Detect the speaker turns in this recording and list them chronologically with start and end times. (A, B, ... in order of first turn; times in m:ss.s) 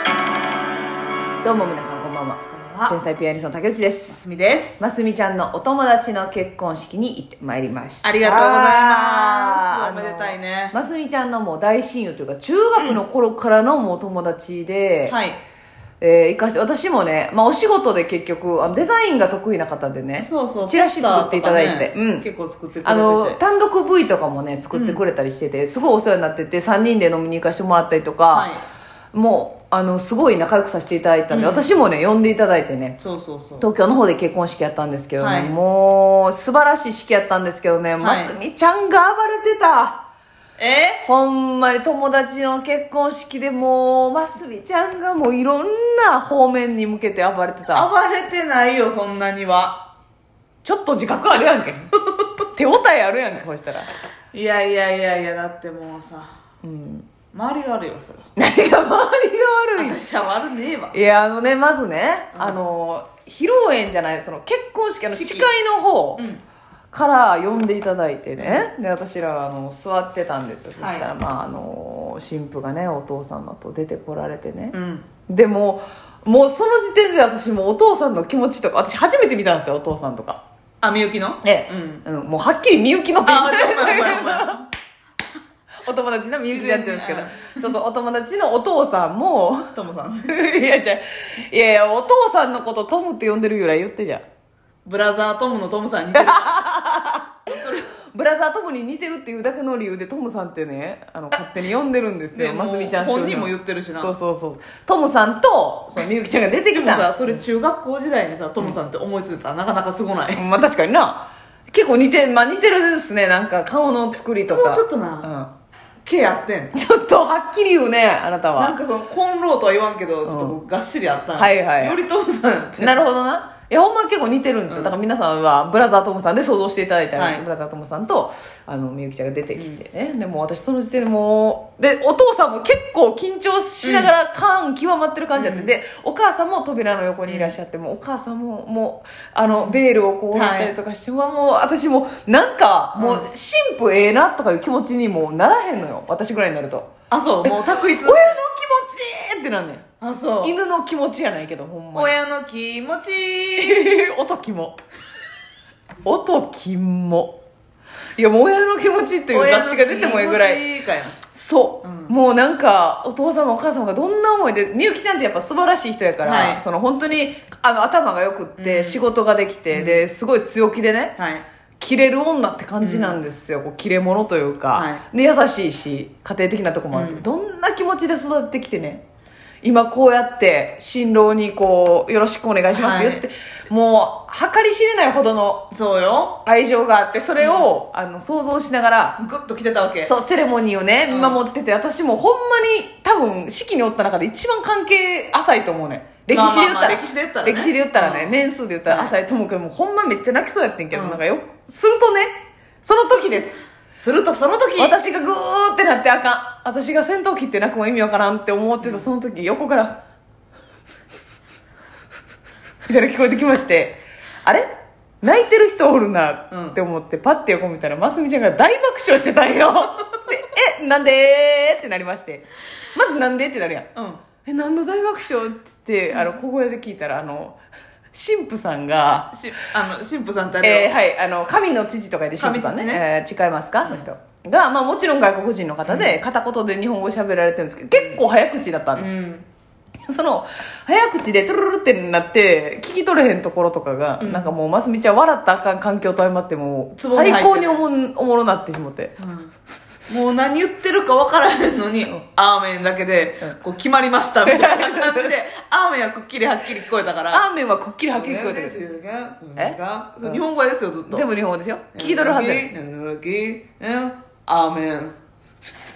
0:01.4-0:04.2 A
0:02.5-0:03.0 B
0:04.1-0:04.8 B
0:04.8-0:15.2 A
0:08.0-0:10.8 B
0:15.1-0:15.4 B
0:16.0-0:22.3 A
0:20.2-0:23.4 B
0:22.8-0:28.5 A
0:24.7-0:25.0 B
0:28.3-0:28.6 B
0:29.1-0:33.0 A
0:31.3-0:31.7 B
0:33.0-0:33.7 B
0:33.6-0:40.0 A
0:35.2-0:35.6 B
0:38.0-0:38.4 B
0:40.6-0:41.0 B
0:41.0-0:47.9 A
0:47.7-0:49.9 B
0:50.6-0:51.9 A
0:52.5-0:53.9 A
0:54.3-0:56.3 B
0:56.6-0:57.1 A
0:57.3-0:58.3 B
0:58.4-1:00.0 A
0:59.8-1:01.0 B
1:00.9-1:06.2 A
1:02.3-1:02.6 B
1:05.1-1:05.5 B
1:06.2-1:06.4 B
1:06.9-1:14.8 A
1:08.4-1:08.7 B
1:10.8-1:11.1 B
1:14.7-1:15.1 B
1:15.3-1:20.4 A
1:20.8-1:22.0 B
1:21.4-1:24.6 A
1:23.2-1:24.7 B
1:25.8-1:29.7 A
1:26.4-1:27.7 B
1:29.7-1:30.3 B
1:30.3-1:34.2 A
1:34.9-1:36.7 B
1:36.1-1:37.3 A
1:37.5-1:37.9 B
1:38.1-1:47.3 A
1:42.4-1:44.1 B
1:46.7-1:50.5 B
1:50.4-1:55.5 A
1:54.5-1:55.3 B
1:56.0-1:56.7 B
1:56.7-1:58.8 A
1:58.6-2:03.0 B
2:00.3-2:00.6 A
2:01.4-2:02.0 A
2:02.8-2:26.9 A
2:04.7-2:05.0 B
2:07.2-2:07.4 B
2:13.8-2:14.1 B
2:15.4-2:15.7 B
2:17.3-2:17.6 B
2:19.5-2:19.8 B
2:20.3-2:20.7 B
2:23.0-2:23.3 B
2:27.1-2:28.4 B
2:27.4-2:29.9 A
2:30.0-2:30.5 B
2:30.4-2:32.2 A
2:32.0-2:33.9 B
2:33.6-2:34.8 A
2:36.0-2:37.4 A
2:38.2-2:40.6 A
2:39.3-2:41.2 B
2:41.3-2:51.2 A
2:41.8-2:42.1 B
2:46.2-2:46.6 B
2:48.6-2:49.0 B
2:49.7-2:50.0 B
2:51.2-2:51.4 B
2:51.8-2:59.0 A
2:52.8-2:53.2 B
2:54.7-2:55.0 B
2:56.9-2:57.2 B
2:59.6-3:05.7 A
3:02.7-3:03.2 B
3:05.7-3:06.4 B
3:06.4-3:09.2 A
3:07.4-3:07.7 B
3:09.2-3:10.1 B
3:10.1-3:22.3 A
3:11.1-3:11.4 B
3:16.3-3:19.1 B
3:20.9-3:21.2 B
3:22.8-3:23.6 A
3:24.0-3:25.0 B
3:24.8-3:30.0 A
3:28.8-3:29.1 B
3:32.9-3:43.9 A
3:36.5-3:36.8 B
3:44.0-3:44.2 B
3:44.4-3:47.6 A
3:46.1-3:46.4 B
3:48.1-3:49.3 A
3:49.3-3:50.9 B
3:50.6-3:59.1 A
3:52.4-3:53.0 B
3:55.9-3:56.2 B
3:57.9-3:58.2 B
3:59.0-3:59.5 B
4:00.1-4:09.2 A
4:04.2-4:04.5 B
4:07.0-4:07.8 B
4:09.2-4:09.5 B
4:10.1-4:17.5 B
4:14.4-4:15.3 A
4:17.3-4:18.8 A
4:18.1-4:21.3 B
4:19.6-4:20.4 A
4:21.1-4:22.7 A
4:22.0-4:25.2 B